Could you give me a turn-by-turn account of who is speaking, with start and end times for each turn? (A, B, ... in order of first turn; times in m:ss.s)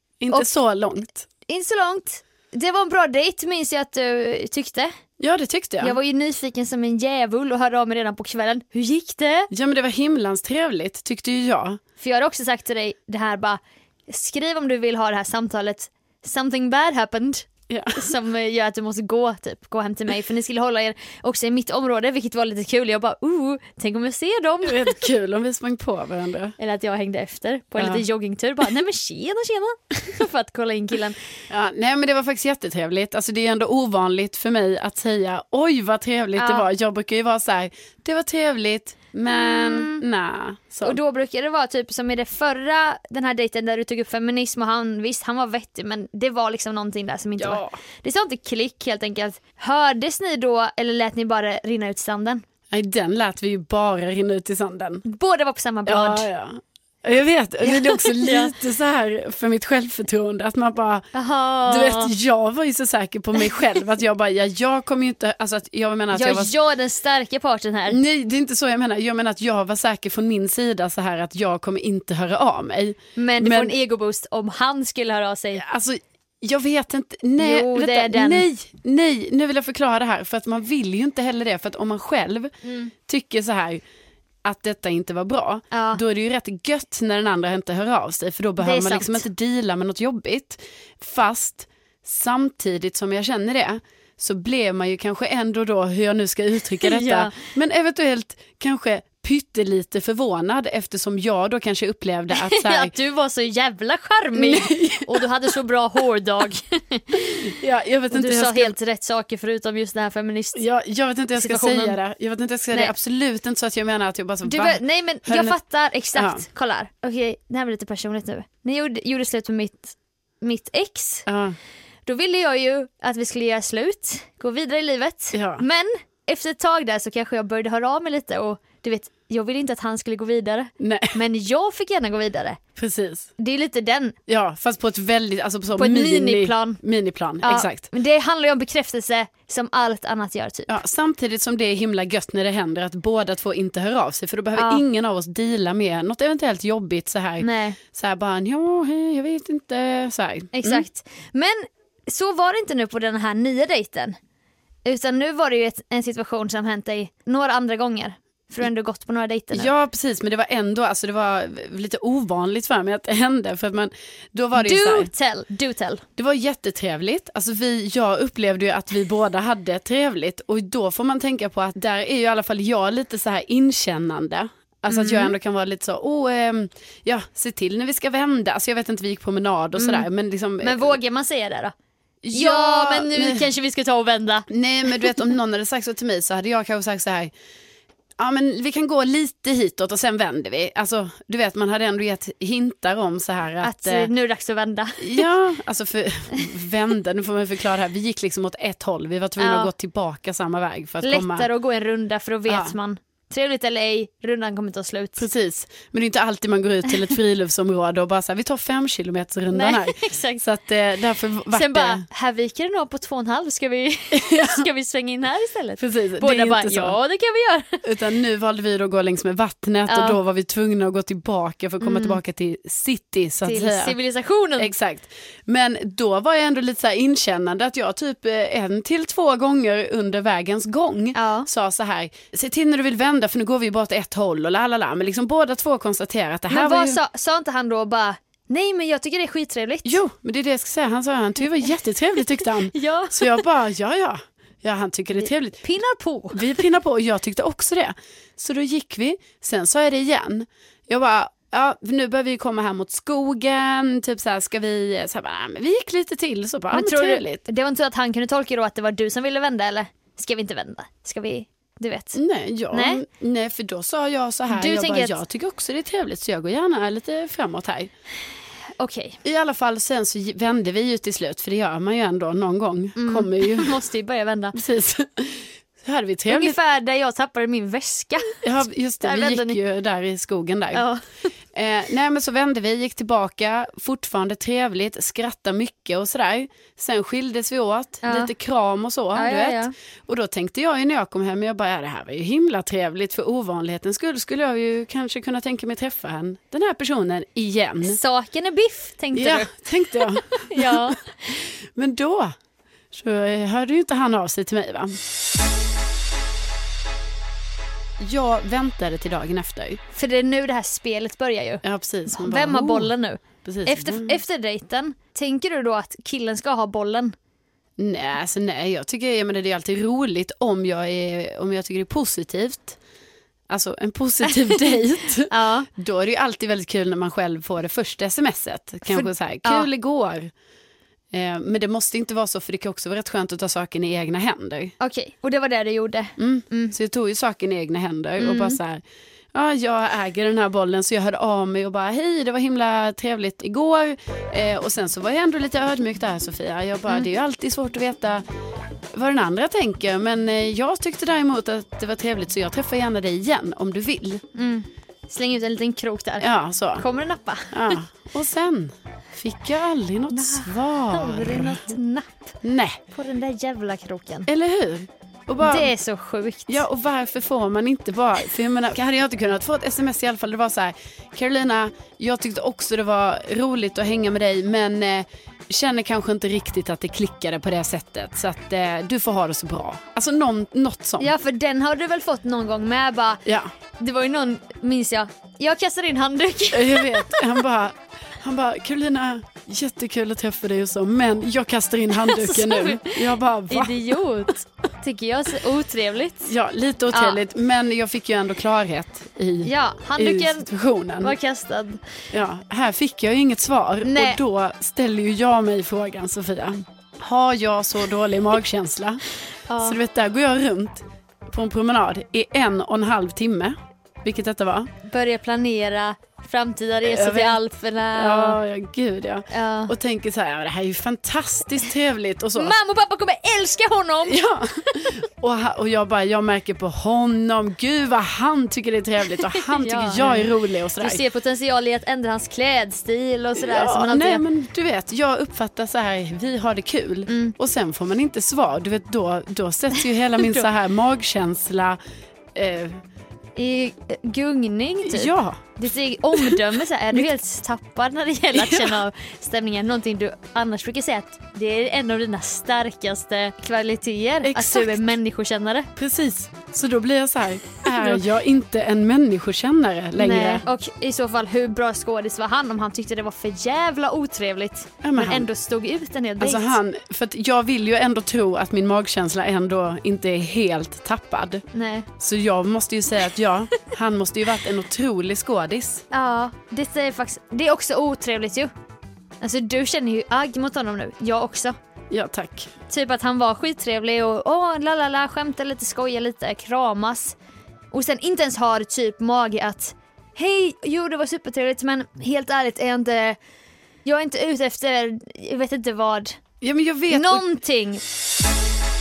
0:00.2-0:01.3 A
0:01.5-0:04.9 B
0:05.2-0:06.0 A
0:05.8-0:09.5 B
0:09.5-0:11.8 A
0:12.0-0:25.0 B
0:17.7-0:18.1 A
0:24.6-0:26.6 A
0:26.6-0:31.2 B
0:27.8-0:28.0 A
0:31.5-0:41.0 A
0:36.4-0:36.7 B
0:39.3-0:40.0 B
0:40.8-0:52.4 B
0:47.4-0:47.7 A
0:52.7-0:55.0 A
0:55.0-0:56.3 B
0:55.9-1:01.1 A
0:57.6-0:58.5 B
1:01.1-1:02.1 B
1:01.6-1:06.5 A
1:06.1-1:08.0 B
1:07.9-1:13.8 A
1:13.2-1:15.6 B
1:15.6-1:22.5 A
1:17.4-1:18.5 B
1:22.6-1:22.9 B
1:23.1-1:23.8 A
1:24.4-1:42.9 A
1:25.7-1:26.0 B
1:28.6-1:29.2 B
1:36.8-1:37.4 B
1:42.3-1:47.5 B
1:44.3-1:45.3 A
1:47.1-1:48.8 A
1:48.1-1:50.6 B
1:50.5-1:55.6 A
1:51.4-1:52.0 B
1:54.4-2:01.3 B
1:56.2-1:56.4 A
2:01.3-2:01.6 A
2:02.1-2:12.6 B
2:05.3-2:05.6 A
2:10.8-2:11.2 A
2:12.8-2:13.3 A
2:13.4-2:14.2 B
2:14.3-2:17.9 A
2:15.8-2:16.8 B
2:17.4-2:20.8 B
2:20.7-2:30.8 A
2:24.6-2:24.8 B
2:27.4-2:27.8 B
2:30.5-2:34.2 B
2:34.9-2:39.7 B
2:39.5-2:45.1 A
2:44.6-2:46.0 B
2:46.2-3:01.0 A
2:54.9-2:55.3 B
2:59.8-3:00.1 B
3:00.6-3:01.7 B
3:02.2-3:03.5 A
3:02.3-3:05.2 B
3:04.5-3:07.3 A
3:08.2-3:14.1 A
3:13.6-3:15.3 B
3:15.0-3:21.5 A
3:19.4-3:19.7 B
3:21.0-3:25.3 B
3:22.5-3:22.8 A
3:25.2-3:32.0 A
3:29.5-3:30.4 B
3:31.5-3:37.8 B
3:34.1-3:34.7 A
3:35.8-3:37.0 A
3:37.8-3:44.0 A
3:39.9-3:40.2 B
3:41.8-3:42.2 B
3:43.4-3:44.7 B
3:44.6-3:57.0 A
3:51.2-3:51.5 B
3:56.5-4:00.0 B
3:59.8-4:05.6 A
4:02.3-4:03.5 B
4:05.2-4:06.6 B
4:06.3-4:17.4 A
4:16.7-4:22.2 B
4:22.2-4:27.9 A
4:22.7-4:23.0 B
4:24.5-4:25.2 B
4:28.8-4:29.2 B
4:29.2-4:33.7 A
4:33.0-4:34.6 B
4:34.5-4:36.6 A
4:36.3-4:38.4 B
4:38.4-4:40.8 A
4:39.0-4:39.6 B
4:40.7-4:41.3 B
4:41.5-4:58.0 A
4:48.0-4:48.3 B
4:49.1-4:49.7 B
4:57.8-5:01.4 B
4:59.2-5:00.9 A
5:01.6-5:02.4 A
5:02.9-5:05.0 A
5:08.0-5:09.8 A
5:09.9-5:17.2 B
5:11.6-5:12.9 A
5:13.4-5:14.2 A
5:17.8-5:22.8 A
5:23.5-5:30.3 A
5:24.3-5:24.7 B
5:25.3-5:25.7 B
5:28.9-5:29.7 B
5:31.1-5:34.7 A
5:34.8-5:36.7 B
5:36.2-5:38.8 A
5:38.2-5:38.6 B
5:39.3-5:48.2 A
5:48.9-5:54.2 A
5:54.3-5:57.8 B
5:56.2-5:56.8 A
5:57.5-6:01.7 A
6:00.1-6:02.4 B
6:02.4-6:02.8 A
6:02.9-6:04.3 B
6:04.3-6:05.7 A
6:05.4-6:06.7 B
6:06.5-6:21.1 A
6:21.0-6:23.2 B
6:23.2-6:23.5 A
6:23.8-6:27.3 B
6:26.5-6:34.3 A
6:31.9-6:36.3 B
6:36.2-6:41.2 A
6:36.9-6:37.2 B
6:39.4-6:40.5 B
6:41.0-6:41.8 B
6:42.1-6:49.0 A
6:43.8-6:44.2 B
6:49.5-6:49.8 B
6:49.6-6:54.7 A
6:54.8-6:58.4 B
6:56.9-6:57.4 A
6:58.0-7:02.6 A
6:59.3-6:59.7 B
7:02.4-7:05.0 B
7:04.1-7:11.0 A
7:09.3-7:14.2 B
7:13.4-7:21.8 A
7:17.1-7:17.4 B
7:22.4-7:22.8 A
7:23.4-7:35.7 B
7:24.8-7:25.6 A
7:26.2-7:26.4 A
7:28.3-7:28.8 A
7:34.2-7:34.8 A
7:35.8-7:40.4 A
7:37.6-7:38.0 B
7:40.0-7:46.6 B
7:44.8-7:45.3 A
7:46.2-7:51.4 A
7:51.5-7:51.9 B
7:52.0-7:55.8 A
7:55.9-7:58.5 B
7:59.2-8:01.5 B
8:01.9-8:02.5 A
8:02.7-8:07.2 B
8:07.7-8:13.2 B
8:13.8-8:16.2 B
8:16.4-8:17.2 A
8:16.9-8:17.8 B